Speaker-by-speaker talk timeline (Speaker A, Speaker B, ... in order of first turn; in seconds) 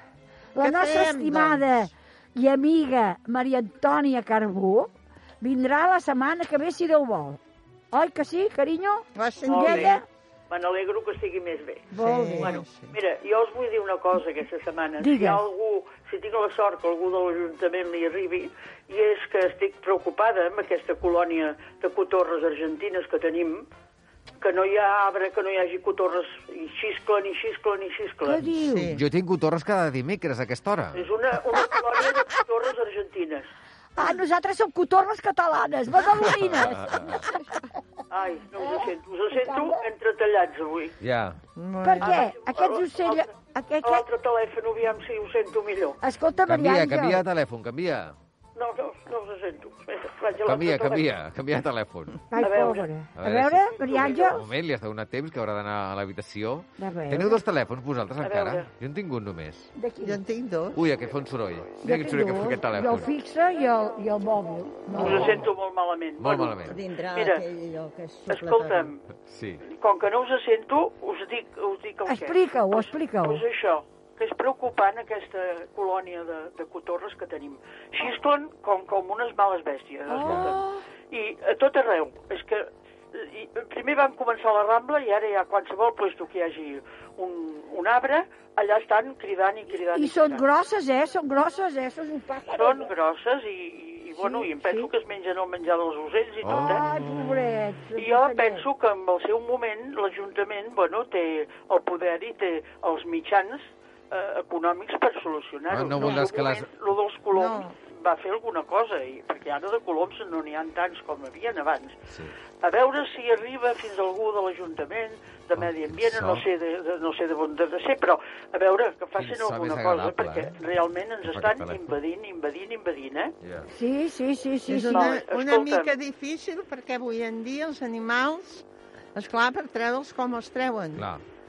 Speaker A: 0.5-4.9, 5.4-7.4, 7.9-10.0, 11.9-12.5, 15.0-15.4, 28.2-28.9, 34.0-37.4, 38.6-39.8, 41.8-44.0, 46.0-47.2, 52.3-54.4, 56.8-57.4, 59.8-60.2, 61.8-65.4, 72.1-73.4, 80.1-80.8, 89.9-92.9, 94.2-94.9, 96.5-98.6, 123.7-125.1
Speaker B: 0.6-1.9, 9.1-10.0, 11.9-12.9, 28.5-29.0, 41.5-42.2, 60.0-60.8, 107.3-107.7, 124.7-131.0
Speaker C: 9.5-10.0, 10.5-11.9, 12.4-23.7, 24.4-28.4, 30.9-33.5, 38.1-40.9, 42.0-43.3, 43.8-46.0, 48.5-51.1, 52.4-52.9, 58.2-58.6, 64.9-67.4, 68.3-69.0, 69.7-80.6, 81.1-90.4, 92.5-96.8, 98.0-112.0, 112.6-123.3, 124.9-126.0
Speaker D: 28.9-31.0, 36.2-37.2, 41.0-41.4, 46.4-48.1, 50.4-52.1, 53.2-59.7, 60.7-63.1, 66.2-66.8, 69.3-69.6, 80.2-80.5, 96.4-96.8, 105.7-106.7, 112.1-112.3, 115.6-116.4, 119.2-120.5, 121.2-121.9, 123.4-123.7, 130.9-131.2
Speaker E: 66.7-68.9